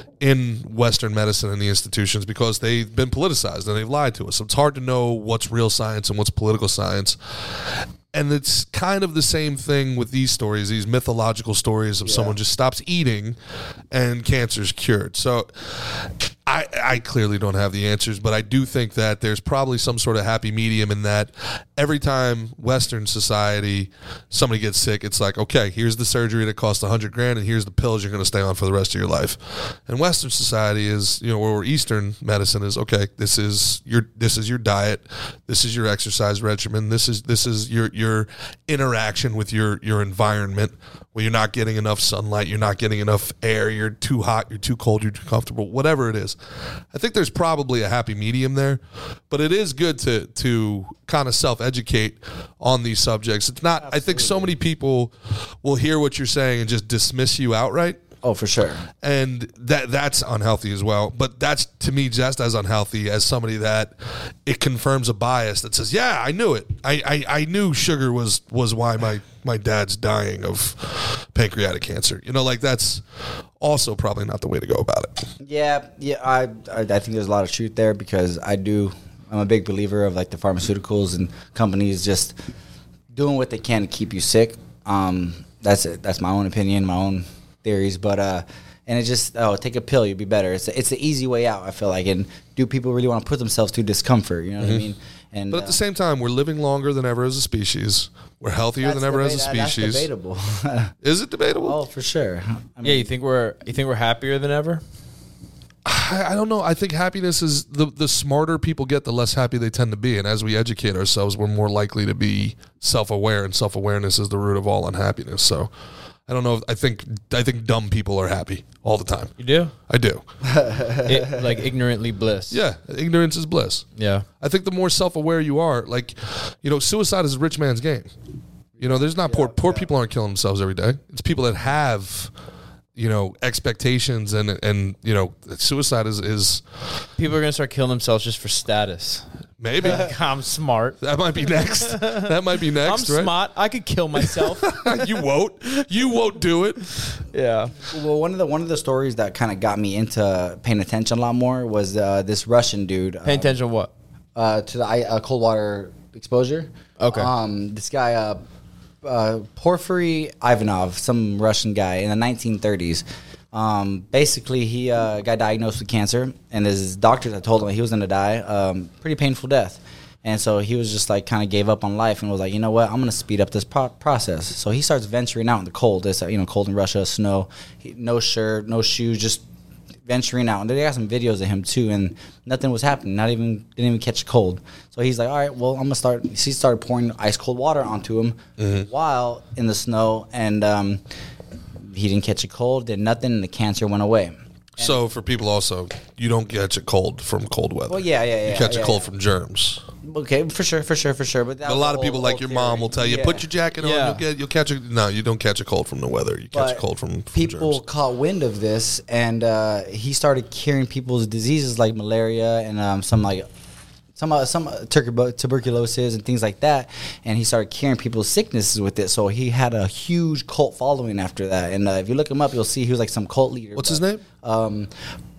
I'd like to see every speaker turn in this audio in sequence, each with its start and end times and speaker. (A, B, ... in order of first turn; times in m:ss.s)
0:00.2-0:13.4 A
0:12.0-0:12.4 B
0:13.9-0:46.4 A
0:46.9-0:58.0 A
0:53.8-0:54.5 B
0:58.2-0:58.9 B
0:59.0-1:03.9 A
1:04.4-1:13.0 A
1:13.6-1:15.2 A
1:15.4-1:22.4 B
1:23.1-1:35.8 B
1:35.5-1:40.1 A
1:38.8-1:40.9 B
1:41.0-1:41.8 A
1:41.6-1:43.1 B
1:42.8-1:44.8 C
1:45.8-1:55.7 A
1:56.3-1:59.3 A
1:59.4-1:59.7 C
1:59.9-2:00.2 A
2:00.4-2:01.6 B
2:01.0-2:02.6 C
2:02.5-2:03.9 A
2:04.0-2:04.2 C
2:04.4-2:08.1 A
2:08.8-2:09.9 B
2:08.8-2:12.3 A
2:13.0-2:16.6 A
2:17.2-2:19.2 C
2:19.6-2:20.1 A
2:19.8-2:21.0 C
2:21.0-2:23.3 A
2:21.8-2:22.3 C
2:22.8-2:24.8 C
2:24.2-2:27.2 A
2:27.3-2:27.8 C
2:27.8-2:33.6 B
2:33.2-2:33.9 C
2:34.4-2:38.4 B
2:37.0-2:37.3 C
2:39.0-2:59.4 B
3:00.0-3:11.0 B
3:08.6-3:08.9 A
3:11.8-3:15.0 B
3:14.8-3:19.8 A
3:17.9-3:19.1 B
3:20.0-3:23.5 B
3:21.6-3:27.8 A
3:23.8-3:24.2 C
3:26.5-3:33.5 B
3:34.1-3:44.9 B
3:43.8-3:44.2 A